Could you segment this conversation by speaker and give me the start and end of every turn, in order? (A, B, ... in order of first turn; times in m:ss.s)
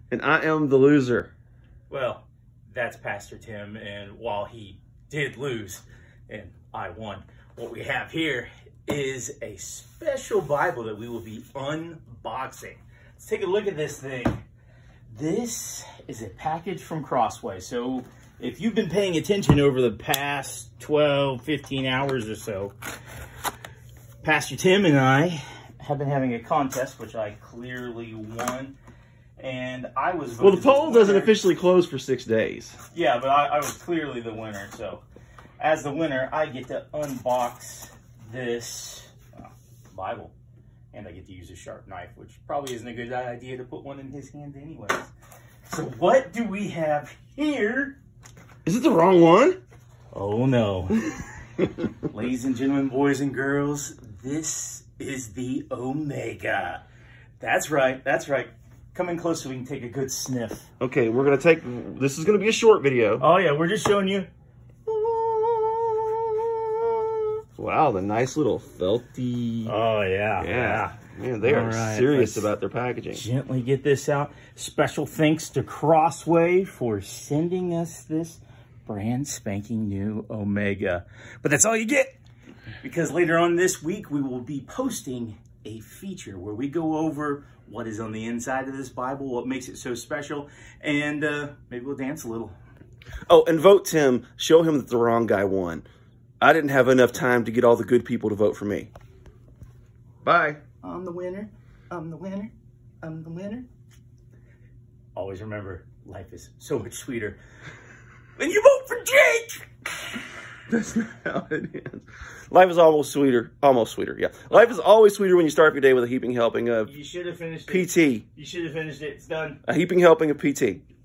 0:00.1-0:01.3 A
0:01.9-0:14.4 B
0:15.1-0:22.8 B
0:24.2-0:28.8 B
0:29.4-0:31.4 B
0:30.4-0:32.8 A
0:32.9-0:35.0 B
0:35.6-0:40.3 B
0:40.9-0:45.1 B
0:45.7-0:48.0 B
0:48.6-0:49.6 A
0:50.1-0:51.1 B
0:52.0-0:56.9 B
0:57.4-1:00.7 B
1:00.8-1:03.2 A
1:03.2-1:04.3 B
1:04.9-1:06.4 A
1:07.6-1:09.7 A
1:09.7-1:12.5 B
1:10.4-1:13.2 A
1:13.1-1:22.2 B
1:22.8-1:32.6 B
1:33.3-1:35.8 A
1:36.4-1:38.9 A
1:40.2-1:40.6 A
1:40.8-1:42.5 B
1:43.0-1:43.7 B
1:45.2-1:47.4 B
1:48.4-1:50.2 B
1:50.7-1:56.9 A
1:56.8-1:59.6 B
1:57.7-1:58.2 A
1:59.6-2:00.8 A